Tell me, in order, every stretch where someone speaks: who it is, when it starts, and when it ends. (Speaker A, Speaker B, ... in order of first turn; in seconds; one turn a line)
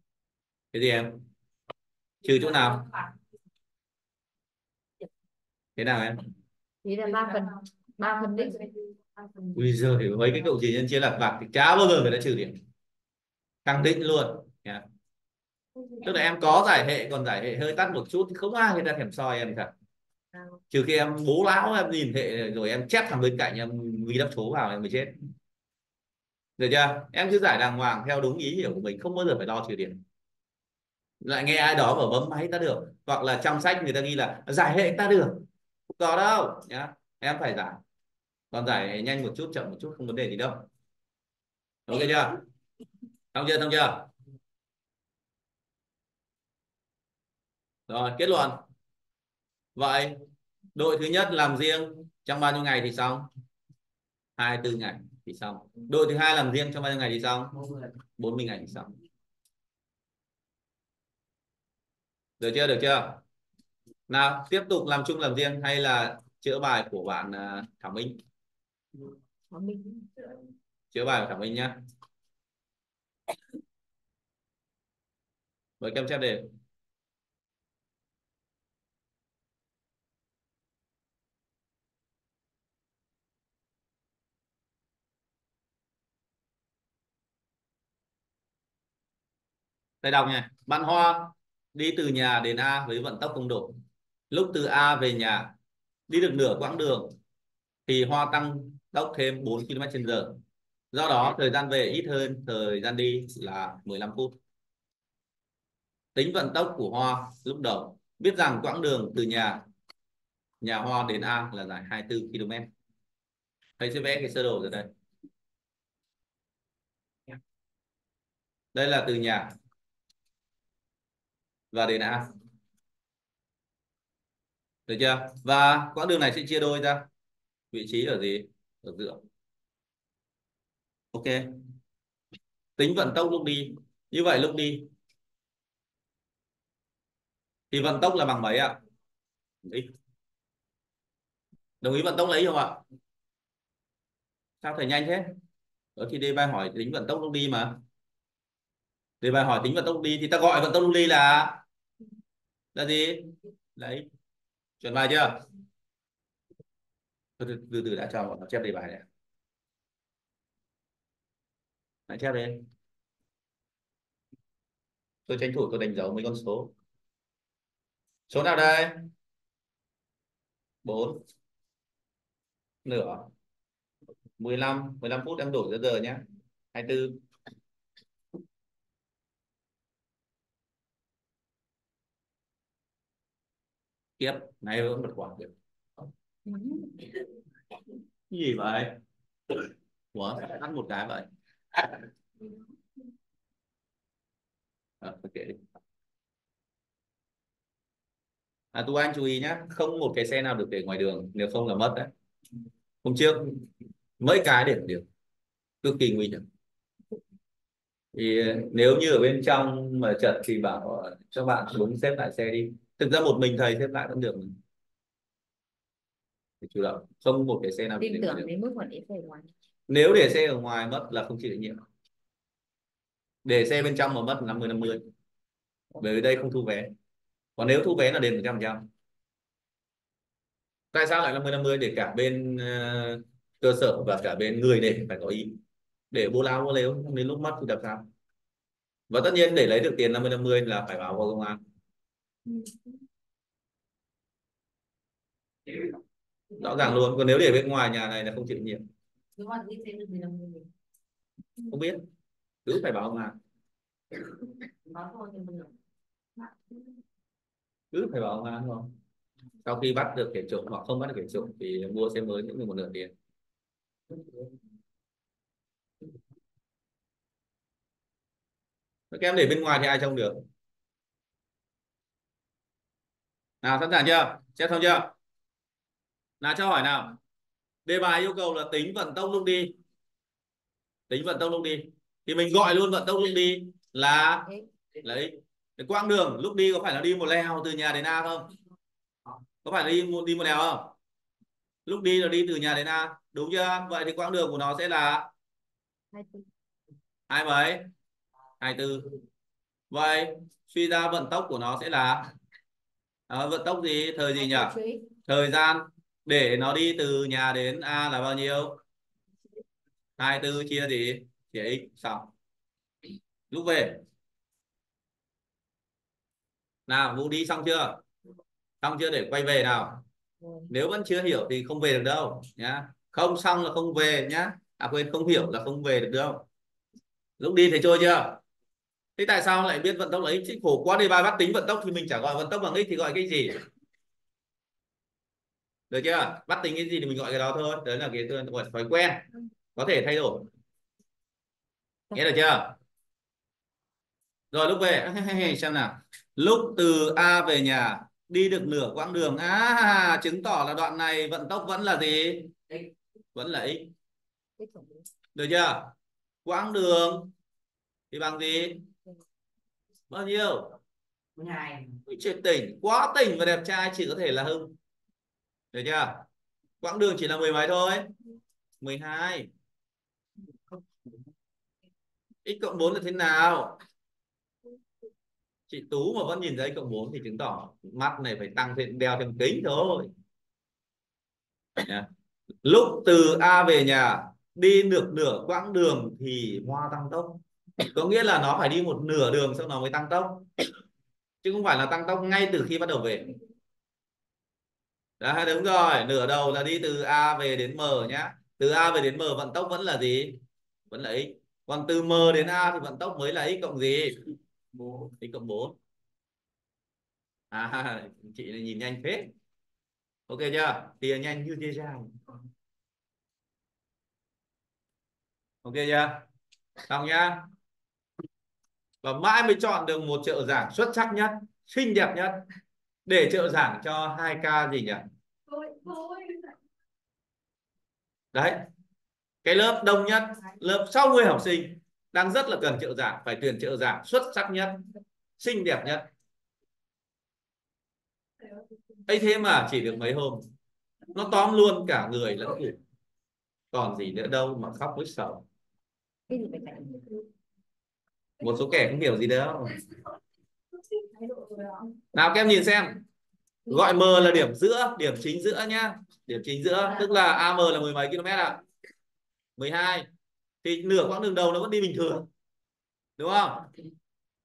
Speaker A: 0.7-1.2
Speaker A: 2.2-2.8
Speaker A: 5.8-6.2
Speaker B: 6.8-8.8
Speaker A: 9.5-12.6
Speaker A: 13.7-14.8
Speaker A: 16.0-19.7
Speaker A: 20.7-25.2
Speaker A: 26.6-30.0
Speaker A: 31.2-37.8
Speaker A: 38.5-40.7
Speaker A: 41.9-42.4
Speaker A: 43.3-44.1
Speaker A: 47.9-48.6
Speaker A: 49.8-50.2
Speaker A: 50.8-53.3
Speaker A: 54.4-57.6
Speaker A: 58.2-58.9
Speaker A: 62.4-63.2
Speaker A: 64.1-68.2
Speaker B: 69.5-70.1
Speaker A: 70.9-71.8
Speaker A: 75.8-76.5
Speaker A: 90.0-95.5
Speaker A: 96.1-97.1
Speaker A: 97.9-100.4
Speaker A: 100.9-104.3
Speaker A: 106.2-109.6
Speaker A: 110.6-112.7
Speaker A: 113.8-114.9
Speaker A: 118.7-119.5
Speaker A: 121.7-122.3
Speaker A: 124.9-127.1
Speaker A: 127.7-129.2
Speaker A: 131.1-131.5
Speaker A: 132.8-134.9
Speaker A: 137.7-138.8
Speaker A: 139.6-139.9
Speaker A: 141.8-142.8
Speaker A: 144.6-145.3
Speaker A: 146.0-147.8
Speaker A: 149.2-151.6
Speaker A: 152.8-154.1
Speaker A: 154.8-155.4
Speaker A: 157.4-159.1
Speaker A: 162.1-162.6
Speaker A: 165.3-166.7
Speaker A: 168.3-169.0
Speaker A: 170.8-171.2
Speaker A: 172.9-173.3
Speaker A: 174.4-176.2
Speaker A: 176.7-177.2
Speaker A: 184.2-185.5
Speaker B: 186.5-187.0
Speaker A: 188.3-189.0
Speaker A: 190.1-192.0
Speaker A: 195.0-195.6
Speaker A: 198.7-202.1
Speaker A: 203.0-203.6
Speaker A: 204.2-205.0
Speaker A: 205.8-206.4
Speaker A: 208.1-214.6
Speaker A: 216.6-218.5
Speaker B: 218.0-219.5
Speaker A: 219.9-221.8
Speaker A: 223.4-225.0
Speaker A: 226.0-226.9
Speaker A: 227.6-228.9
Speaker A: 230.9-235.6
Speaker A: 236.1-238.1
Speaker A: 239.1-241.6
Speaker A: 246.6-248.8
Speaker B: 249.4-250.7
Speaker A: 251.7-252.0
Speaker A: 252.7-253.4
Speaker B: 254.9-255.7
Speaker A: 257.9-259.0
Speaker A: 259.6-263.1
Speaker A: 269.1-270.4
Speaker A: 273.6-275.1
Speaker A: 276.4-277.1
Speaker A: 277.9-279.8
Speaker A: 281.1-284.5
Speaker A: 285.0-288.5
Speaker A: 289.6-290.9
Speaker A: 291.9-295.3
Speaker B: 296.1-296.4
Speaker A: 297.3-297.9
Speaker A: 298.6-299.1
Speaker A: 299.9-302.3
Speaker A: 303.3-308.8
Speaker B: 304.5-305.0
Speaker A: 310.2-312.3
Speaker A: 313.5-314.0
Speaker A: 316.9-318.0
Speaker A: 318.8-320.0
Speaker A: 320.7-326.5
Speaker A: 327.4-328.4
Speaker A: 329.2-333.6
Speaker A: 335.9-340.5
Speaker A: 342.1-342.8
Speaker A: 344.5-352.5
Speaker A: 353.4-353.9
Speaker B: 354.6-355.0
Speaker A: 355.4-355.9
Speaker A: 356.4-357.3
Speaker A: 358.1-358.9
Speaker A: 360.1-360.8
Speaker A: 362.1-364.8
Speaker A: 365.7-366.2
Speaker A: 366.8-368.1
Speaker A: 368.8-369.5
Speaker A: 372.4-373.8
Speaker A: 375.7-380.1
Speaker A: 381.8-382.1
Speaker A: 382.6-387.4
Speaker A: 387.9-390.5
Speaker A: 391.4-393.3
Speaker A: 395.2-404.3
Speaker A: 404.9-405.8
Speaker A: 407.5-409.3
Speaker A: 410.3-412.1
Speaker A: 415.6-416.2
Speaker A: 416.9-417.5
Speaker A: 419.0-422.4
Speaker A: 423.1-425.0
Speaker B: 425.5-426.5
Speaker A: 428.3-428.6
Speaker A: 429.4-434.9
Speaker A: 435.4-436.1
Speaker A: 439.1-440.4
Speaker A: 441.1-442.8
Speaker A: 443.7-445.4
Speaker B: 446.3-447.2
Speaker A: 448.4-449.8
Speaker B: 451.2-451.8
Speaker A: 452.1-453.0
Speaker A: 453.7-458.6
Speaker A: 459.6-460.1
Speaker A: 460.6-462.3
Speaker A: 463.2-463.7